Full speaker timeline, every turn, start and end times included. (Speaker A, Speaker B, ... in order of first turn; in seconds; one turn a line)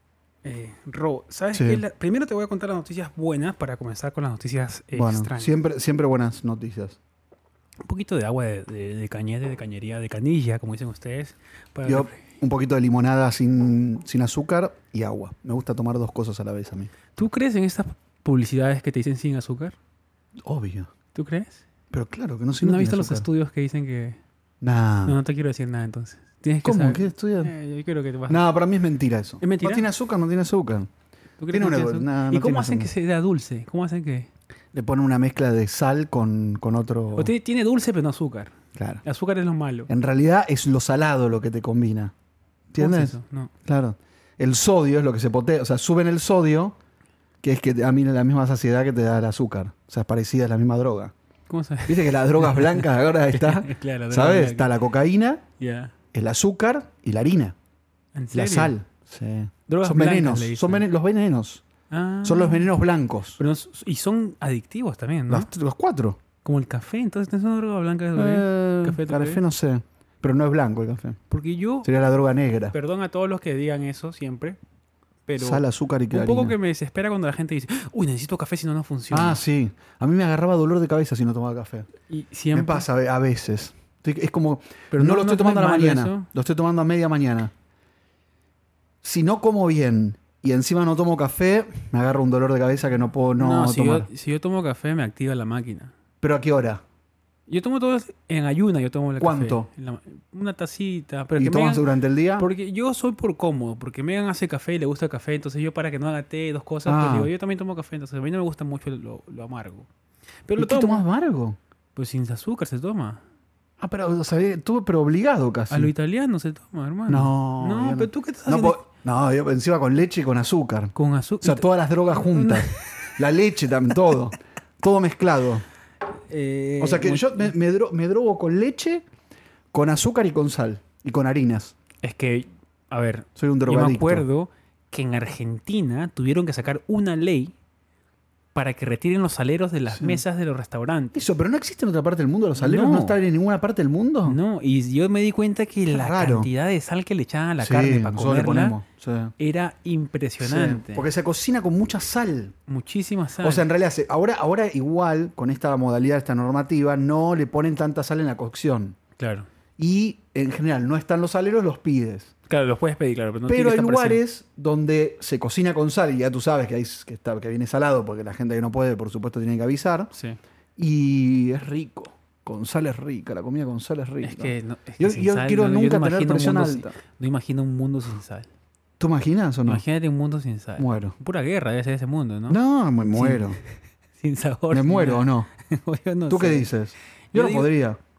Speaker A: 0.4-5.5
Speaker B: 1.5-1.8
Speaker B: 4.9-7.0
Speaker A: 7.8-12.2
Speaker B: 11.8-16.9
Speaker A: 17.1-19.8
Speaker B: 20.4-20.9
Speaker A: 21.1-21.6
Speaker B: 21.9-23.3
Speaker A: 22.6-24.2
Speaker B: 24.6-25.1
Speaker A: 25.1-28.4
Speaker B: 26.6-27.5
Speaker B: 28.3-30.9
Speaker A: 29.4-29.9
Speaker A: 31.4-34.3
Speaker B: 31.5-32.9
Speaker B: 34.7-37.3
Speaker A: 37.1-39.9
Speaker B: 38.7-39.0
Speaker B: 39.9-42.1
Speaker B: 42.7-46.8
Speaker A: 42.8-43.5
Speaker B: 47.4-51.1
Speaker A: 51.5-54.7
Speaker B: 51.9-55.4
Speaker A: 55.6-55.9
Speaker B: 56.1-57.5
Speaker A: 58.1-58.8
Speaker B: 58.3-61.6
Speaker A: 59.7-60.8
Speaker A: 61.9-62.7
Speaker B: 62.2-63.4
Speaker A: 63.4-65.5
Speaker B: 65.3-66.2
Speaker A: 66.4-69.4
Speaker B: 68.2-71.2
Speaker A: 71.3-71.9
Speaker B: 71.8-72.7
Speaker A: 72.7-74.6
Speaker A: 75.3-79.4
Speaker B: 75.4-76.5
Speaker B: 79.1-81.9
Speaker A: 82.1-82.8
Speaker B: 82.5-87.5
Speaker A: 84.9-86.3
Speaker B: 89.0-94.1
Speaker A: 93.4-95.9
Speaker B: 96.2-96.8
Speaker A: 97.5-101.8
Speaker B: 99.2-99.7
Speaker B: 101.3-102.5
Speaker A: 102.4-109.9
Speaker B: 106.8-107.3
Speaker A: 110.5-111.0
Speaker B: 110.6-111.6
Speaker A: 112.0-113.2
Speaker B: 113.8-115.9
Speaker A: 115.7-118.8
Speaker B: 117.1-125.6
Speaker A: 120.9-123.1
Speaker A: 126.3-127.5
Speaker B: 126.8-129.0
Speaker B: 129.7-131.7
Speaker A: 132.0-137.5
Speaker B: 133.4-134.2
Speaker A: 138.5-141.2
Speaker B: 139.9-140.2
Speaker B: 141.1-144.4
Speaker A: 142.6-143.2
Speaker A: 144.2-148.8
Speaker B: 145.9-146.5
Speaker B: 147.6-149.3
Speaker A: 149.4-151.1
Speaker B: 150.4-152.5
Speaker A: 152.7-153.6
Speaker B: 153.4-159.0
Speaker A: 159.2-159.5
Speaker B: 159.8-162.3
Speaker A: 162.5-164.2
Speaker B: 163.5-170.1
Speaker A: 170.1-170.4
Speaker B: 170.8-176.9
Speaker A: 174.2-178.5
Speaker B: 179.0-179.8
Speaker A: 179.7-182.6
Speaker B: 180.8-181.1
Speaker B: 182.5-183.6
Speaker A: 183.1-183.6
Speaker A: 184.2-186.7
Speaker B: 184.7-185.5
Speaker B: 186.3-188.0
Speaker A: 187.3-187.7